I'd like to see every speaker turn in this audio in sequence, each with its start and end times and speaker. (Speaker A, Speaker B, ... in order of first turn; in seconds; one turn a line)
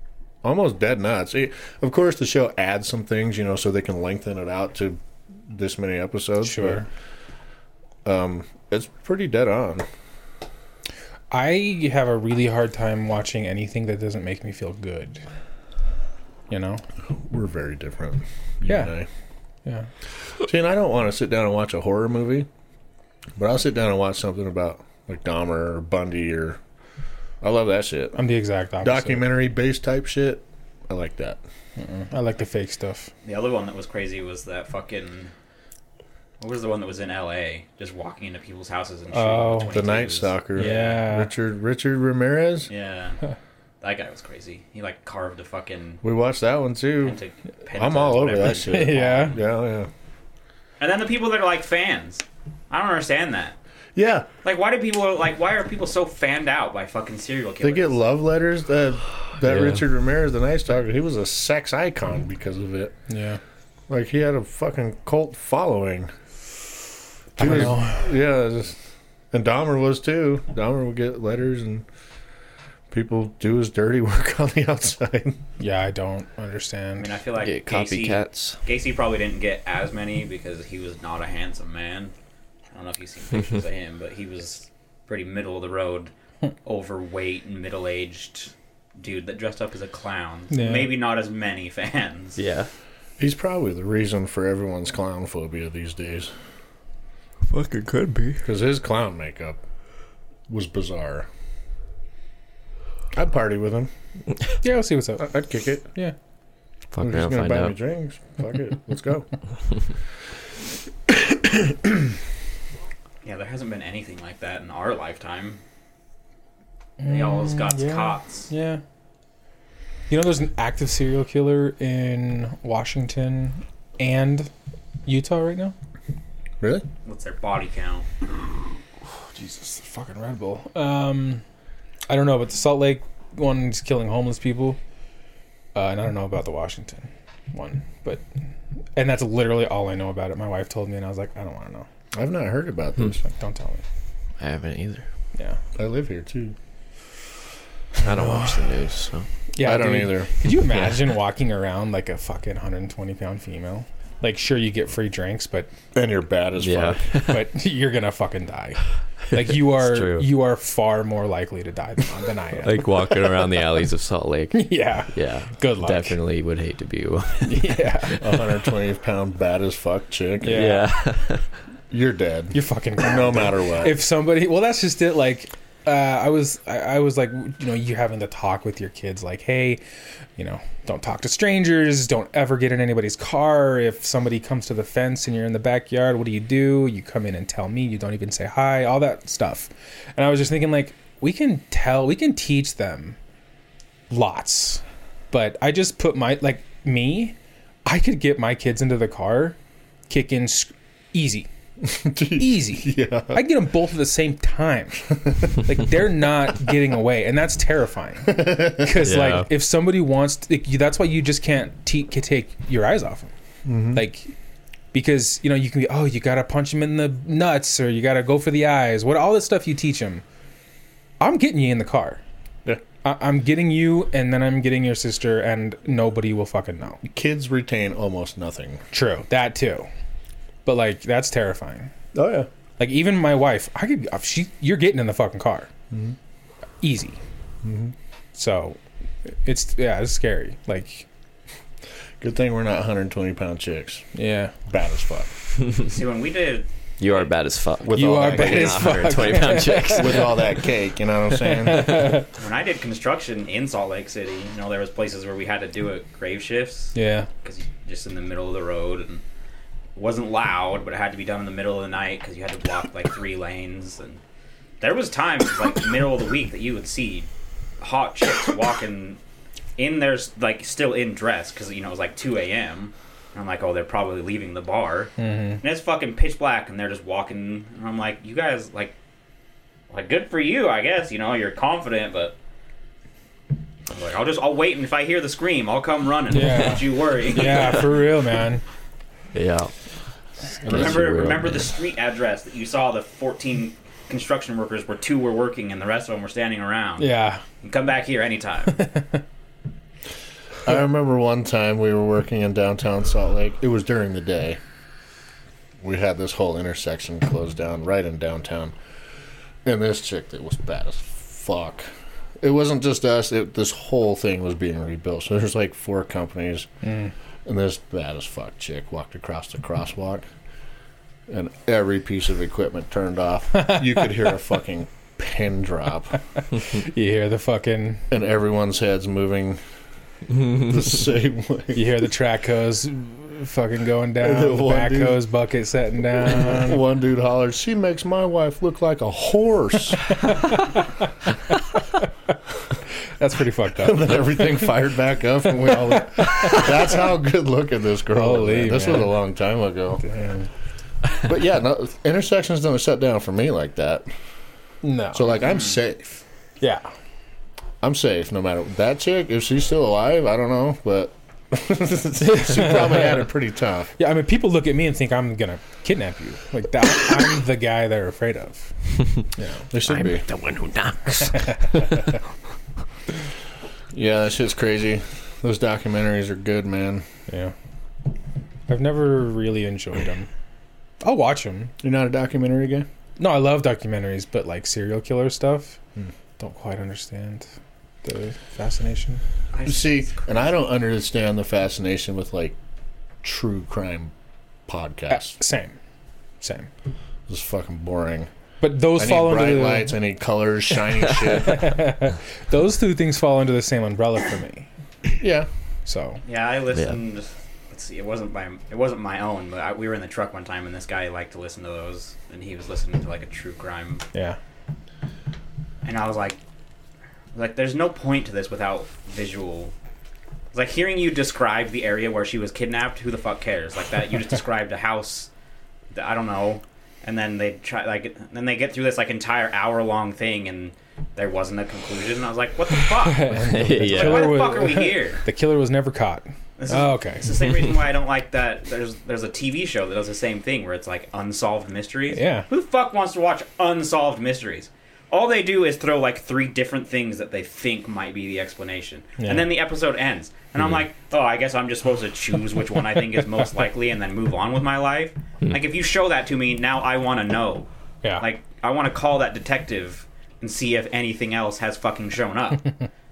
Speaker A: 0.4-6.8
Speaker B: 6.4-6.9
Speaker A: 8.1-9.9
Speaker B: 11.3-15.2
Speaker B: 16.5-16.8
Speaker A: 17.1-19.1
Speaker B: 18.7-18.9
Speaker A: 20.4-22.5
Speaker A: 23.4-26.6
Speaker A: 27.4-28.2
Speaker B: 28.1-29.2
Speaker A: 28.8-31.4
Speaker B: 31.8-33.1
Speaker C: 33.2-35.3
Speaker C: 36.4-41.0
Speaker B: 39.1-39.8
Speaker A: 39.7-42.7
Speaker B: 40.5-41.3
Speaker C: 42.7-43.2
Speaker C: 43.8-46.0
Speaker A: 46.0-47.2
Speaker C: 47.0-49.4
Speaker A: 47.8-49.9
Speaker B: 48.6-49.4
Speaker C: 50.8-53.6
Speaker A: 54.0-54.3
Speaker C: 54.4-58.0
Speaker A: 57.6-63.0
Speaker D: 59.4-59.8
Speaker B: 63.1-63.4
Speaker A: 63.9-66.1
Speaker A: 67.4-68.8
Speaker B: 67.4-68.0
Speaker A: 69.3-71.8
Speaker A: 72.9-75.4
Speaker B: 75.6-77.1
Speaker C: 77.0-82.1
Speaker D: 77.4-78.6
Speaker C: 82.7-86.1
Speaker C: 86.7-92.4
Speaker B: 90.5-90.9
Speaker D: 92.4-92.7
Speaker A: 93.2-96.3
Speaker D: 97.5-98.5
Speaker A: 98.4-99.6
Speaker A: 100.5-101.3
Speaker A: 103.1-103.9
Speaker B: 104.6-105.4
Speaker A: 105.2-105.9
Speaker D: 106.9-107.7
Speaker A: 107.0-109.3
Speaker C: 113.2-115.6
Speaker B: 117.0-118.8
Speaker C: 117.0-118.5
Speaker B: 120.1-124.5
Speaker B: 125.1-125.7
Speaker C: 127.0-128.1
Speaker B: 129.3-131.4
Speaker B: 132.1-134.8
Speaker B: 135.8-138.2
Speaker B: 139.0-141.9
Speaker A: 142.1-143.2
Speaker B: 143.2-143.8
Speaker D: 144.4-145.1
Speaker A: 145.8-146.6
Speaker D: 148.0-149.3
Speaker B: 149.5-155.7
Speaker A: 149.6-150.3
Speaker D: 150.6-151.0
Speaker A: 155.9-157.1
Speaker D: 156.6-157.4
Speaker B: 157.3-162.8
Speaker D: 159.5-160.3
Speaker D: 162.6-168.5
Speaker B: 164.5-166.2
Speaker B: 167.4-168.2
Speaker A: 168.2-170.7
Speaker B: 170.4-170.9
Speaker D: 170.5-171.5
Speaker A: 171.9-174.0
Speaker B: 172.5-179.8
Speaker B: 180.4-193.2
Speaker B: 194.1-197.3
Speaker B: 197.9-199.6
Speaker B: 200.1-201.5
Speaker A: 201.8-203.4
Speaker B: 202.3-213.3
Speaker A: 208.3-208.9
Speaker D: 209.0-209.5
Speaker A: 213.7-214.0
Speaker B: 213.9-214.3
Speaker B: 214.9-220.2
Speaker B: 221.2-222.2
Speaker B: 223.0-227.0
Speaker A: 227.0-228.8
Speaker B: 228.9-229.9
Speaker B: 230.7-231.9
Speaker A: 232.1-232.5
Speaker B: 232.8-235.7
Speaker A: 235.9-236.2
Speaker B: 236.8-237.2
Speaker A: 237.6-237.9
Speaker B: 238.3-241.1
Speaker A: 242.2-244.1
Speaker B: 244.1-244.5
Speaker A: 244.7-245.3
Speaker C: 245.8-247.3
Speaker D: 247.0-250.6
Speaker A: 247.8-249.4
Speaker B: 247.9-250.4
Speaker A: 249.9-252.2
Speaker D: 251.6-252.1
Speaker B: 251.6-252.3
Speaker C: 252.3-259.2
Speaker B: 256.9-257.3
Speaker C: 260.0-264.2
Speaker C: 264.8-267.3
Speaker C: 267.8-269.2
Speaker C: 269.8-278.9
Speaker B: 275.2-275.6
Speaker C: 279.9-282.4
Speaker C: 283.9-287.9
Speaker B: 286.3-288.6
Speaker D: 287.3-288.0
Speaker D: 289.3-289.7
Speaker D: 290.6-291.7
Speaker C: 290.7-298.8
Speaker A: 290.7-291.0
Speaker B: 297.0-297.4
Speaker B: 298.8-299.2
Speaker A: 300.6-304.6
Speaker A: 305.8-308.7
Speaker A: 309.6-311.9
Speaker A: 312.4-316.7
Speaker B: 316.8-317.1
Speaker A: 317.5-320.3
Speaker A: 321.3-326.2
Speaker B: 323.6-323.8
Speaker B: 326.5-328.0
Speaker A: 328.1-329.6
Speaker A: 330.3-331.9
Speaker B: 331.7-336.8
Speaker A: 334.2-335.2
Speaker A: 336.2-340.2
Speaker B: 340.2-340.9
Speaker B: 343.1-344.7
Speaker A: 343.8-350.0
Speaker B: 345.9-346.7
Speaker B: 348.1-349.2
Speaker B: 350.0-350.5
Speaker A: 351.1-354.1
Speaker B: 354.8-355.4
Speaker A: 355.1-356.2
Speaker B: 356.6-356.9
Speaker A: 357.8-363.9
Speaker B: 362.4-363.2
Speaker B: 364.0-368.7
Speaker B: 369.4-369.6
Speaker A: 369.7-370.3
Speaker D: 369.9-372.1
Speaker A: 373.9-377.1
Speaker B: 377.3-377.5
Speaker B: 378.7-380.3
Speaker B: 381.0-381.7
Speaker A: 381.8-382.9
Speaker B: 383.2-385.8
Speaker B: 386.4-387.5
Speaker B: 388.0-389.2
Speaker C: 389.5-390.4
Speaker A: 389.6-392.6
Speaker A: 393.2-394.1
Speaker A: 394.7-395.4
Speaker B: 395.1-395.8
Speaker B: 396.4-396.7
Speaker A: 397.3-398.3
Speaker B: 398.6-399.9
Speaker A: 398.9-401.8
Speaker B: 401.3-404.7
Speaker A: 405.1-405.5
Speaker B: 405.9-406.2
Speaker C: 406.2-414.1
Speaker C: 415.8-416.4
Speaker C: 417.3-419.7
Speaker C: 420.5-425.3
Speaker C: 425.9-435.2
Speaker B: 433.0-437.3
Speaker D: 433.4-434.4
Speaker C: 436.6-457.7
Speaker B: 442.1-442.5
Speaker B: 449.2-449.5
Speaker C: 458.2-462.7